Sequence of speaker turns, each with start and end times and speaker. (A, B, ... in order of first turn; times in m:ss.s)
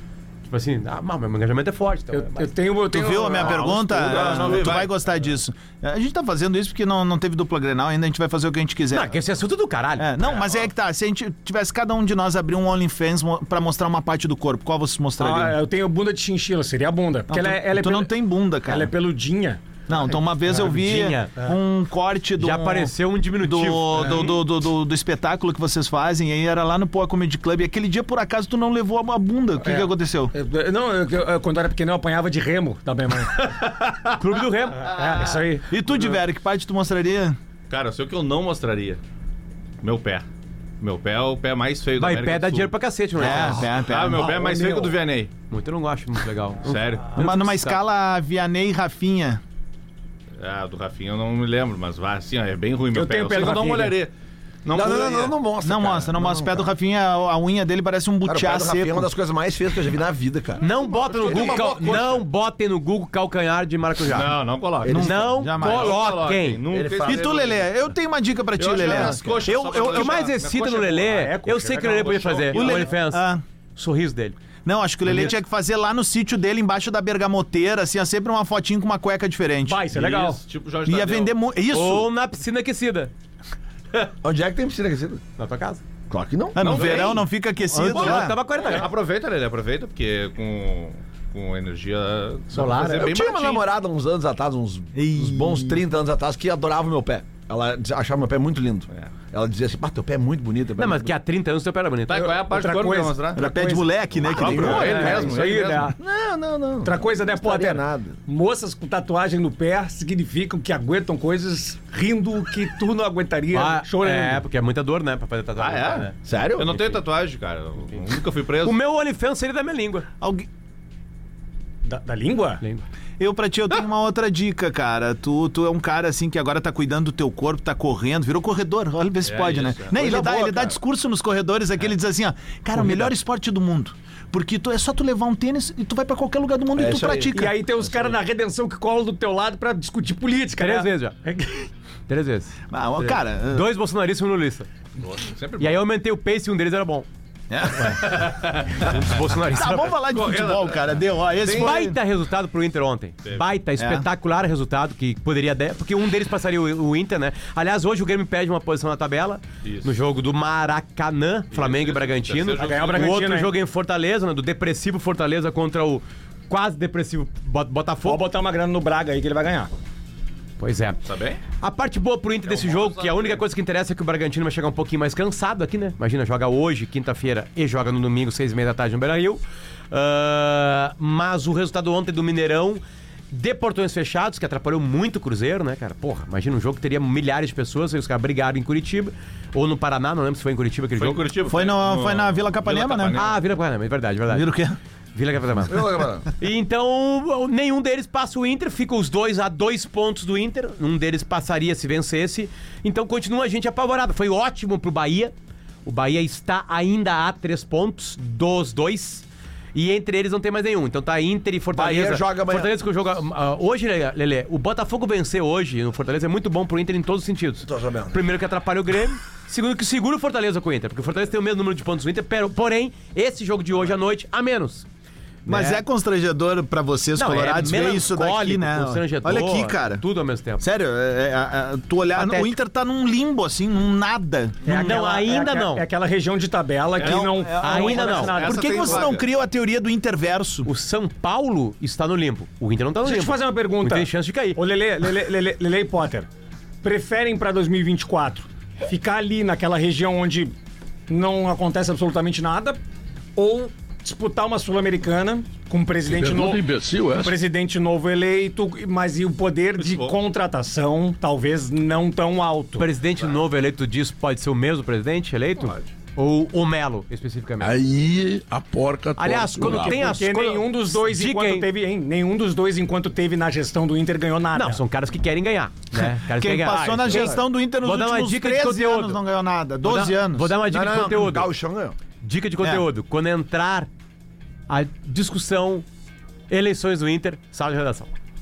0:00.5-0:02.5 A
0:02.1-0:04.6 B
0:02.9-0:09.2 C
0:03.4-0:05.0 D
0:08.9-0:10.1 A
0:10.0-0:15.6 C
0:15.2-0:19.6 B
0:17.3-0:18.9 C
0:19.9-0:30.3 C
0:20.5-0:20.8 B
0:20.5-0:21.3 A
0:22.4-0:24.3 A
0:24.0-0:24.2 B
0:29.6-0:33.5 B
0:33.4-0:34.1 D
0:34.2-0:35.2 A
0:34.8-0:35.7 B
0:35.7-0:37.4 C
0:37.7-0:39.0 D
0:39.8-0:40.2 D
0:40.8-0:45.3 D
0:42.0-0:43.7 A
0:43.2-0:44.3 C
0:44.1-0:44.9 B
0:45.5-0:47.8 A
0:46.6-0:47.1 D
0:47.1-0:49.4 C
0:50.4-0:54.1 D
0:52.9-0:54.0 B
0:54.6-0:55.4 D
0:54.7-0:56.7 E
0:55.6-0:59.1 C
0:58.2-1:02.2 E
1:00.6-1:04.3 A
1:00.7-1:02.2 D
1:04.1-1:07.6 D
1:04.8-1:05.1 E
1:04.8-1:06.0 C
1:04.9-1:06.6 A
1:06.7-1:07.5 E
1:07.0-1:10.1 C
1:08.6-1:11.0 D
1:09.9-1:14.4 A
1:11.0-1:12.6 B
1:11.7-1:12.8 D
1:12.5-1:13.4 C
1:14.6-1:19.9 C
1:19.6-1:20.4 B
1:19.9-1:21.4 D
1:20.8-1:22.1 C
1:21.7-1:23.1 A
1:24.2-1:25.2 E
1:25.4-1:25.8 A
1:26.1-1:27.2 E
1:26.5-1:28.4 C
1:26.6-1:27.2 D
1:27.7-1:28.9 A
1:27.9-1:33.7 D
1:32.5-1:33.1 A
1:32.6-1:41.1 E
1:34.9-1:35.8 C
1:40.8-1:42.4 A
1:42.1-1:43.5 D
1:42.3-1:43.9 B
1:43.4-1:45.2 C
1:44.2-1:45.9 D
1:44.4-1:45.9 B
1:44.5-1:45.0 E
1:46.0-1:48.2 E
1:46.8-1:54.4 B
1:53.5-1:56.1 A
1:55.6-1:58.8 D
1:56.2-1:56.7 E
1:58.6-2:00.0 A
2:00.2-2:00.5 C
2:01.8-2:02.6 B
2:02.6-2:02.8 A
2:03.2-2:17.6 C
2:09.2-2:10.0 D
2:10.0-2:10.7 E
2:12.7-2:13.1 A
2:16.7-2:17.4 E
2:17.3-2:21.7 B
2:20.6-2:21.2 A
2:22.1-2:24.7 A
2:22.7-2:23.7 C
2:25.0-2:25.8 D
2:25.6-2:27.1 A
2:27.5-2:28.2 C
2:28.0-2:29.0 D
2:28.8-2:29.9 A
2:29.5-2:32.0 C
2:30.0-2:31.8 D
2:31.5-2:48.2 A
2:33.8-2:34.0 C
2:39.6-2:39.9 D
2:41.5-2:43.2 D
2:42.6-2:43.5 B
2:48.0-2:49.7 B
2:50.6-2:51.0 A
2:51.0-2:51.4 D
2:51.6-3:11.2 A
2:52.4-2:53.4 D
3:11.0-3:13.4 D
3:11.4-3:13.2 C
3:13.1-3:14.5 A
3:14.3-3:14.8 C
3:15.1-3:25.3 A
3:15.6-3:16.3 E
3:25.8-3:44.8 A
3:31.7-3:32.7 E
3:37.6-3:38.2 E
3:45.4-3:45.8 A
3:45.4-3:50.0 C
3:47.2-3:50.6 A
3:50.6-3:54.7 C
3:52.1-3:52.6 A
3:54.6-3:59.0 B
3:54.6-3:55.8 A
3:57.0-3:57.4 D
3:57.0-4:00.7 C
3:57.6-3:58.4 A
3:58.0-3:59.2 D
4:00.6-4:04.6 A
4:03.0-4:06.3 B
4:06.8-4:10.5 B
4:11.1-4:12.8 B
4:13.4-4:22.9 B
4:16.0-4:17.4 F
4:19.8-4:20.2 D
4:22.8-4:27.8 A
4:25.6-4:25.9 D
4:27.6-4:30.1 F
4:29.2-4:31.7 A
4:29.6-4:34.8 B
4:34.5-4:39.2 A
4:35.9-4:41.0 C
4:36.6-4:37.4 B
4:39.8-4:41.5 A
4:40.6-4:42.0 E
4:42.2-4:43.9 A
4:44.7-4:45.8 A
4:46.5-4:48.1 A